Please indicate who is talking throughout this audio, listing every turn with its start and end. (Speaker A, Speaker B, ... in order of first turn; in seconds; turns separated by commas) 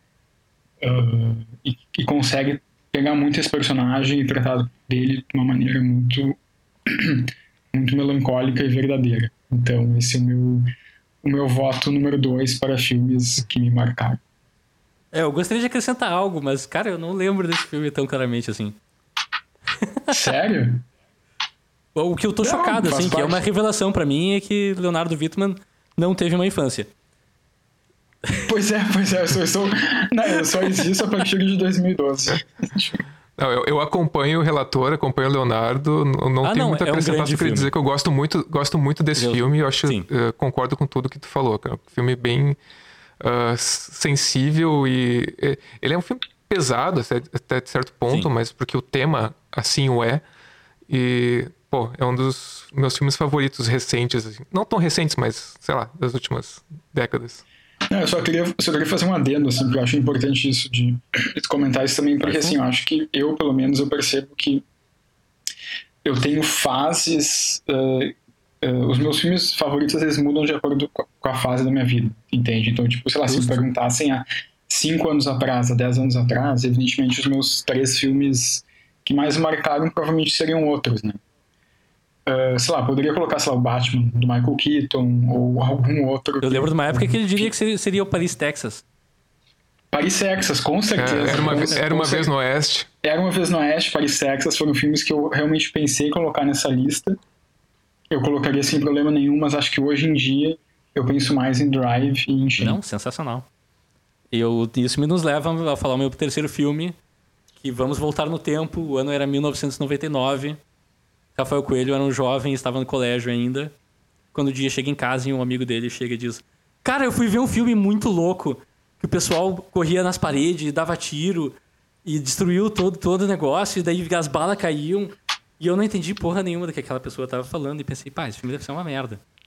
Speaker A: 0.8-10.7, Speaker A: 11.2-14.2, Speaker B: 15.1-18.8, Speaker A: 20.1-20.9, Speaker B: 21.9-26.9, Speaker A: 22.4-23.4, Speaker A: 28.4-33.0, Speaker C: 33.4-42.6, Speaker B: 36.4-37.7, Speaker B: 39.1-40.1, Speaker C: 43.2-50.2, Speaker C: 50.9-57.4, Speaker A: 57.9-64.6, Speaker C: 62.2-62.5, Speaker A: 66.0-81.2, Speaker B: 73.3-73.6, Speaker A: 82.2-87.5, Speaker B: 86.4-88.8, Speaker A: 89.9-92.3, Speaker C: 91.0-92.9, Speaker B: 91.2-91.8, Speaker A: 93.0-97.2, Speaker A: 98.1-102.8, Speaker B: 102.6-103.5, Speaker B: 104.3-107.0, Speaker B: 107.6-110.6, Speaker B: 111.3-113.7, Speaker B: 114.3-129.2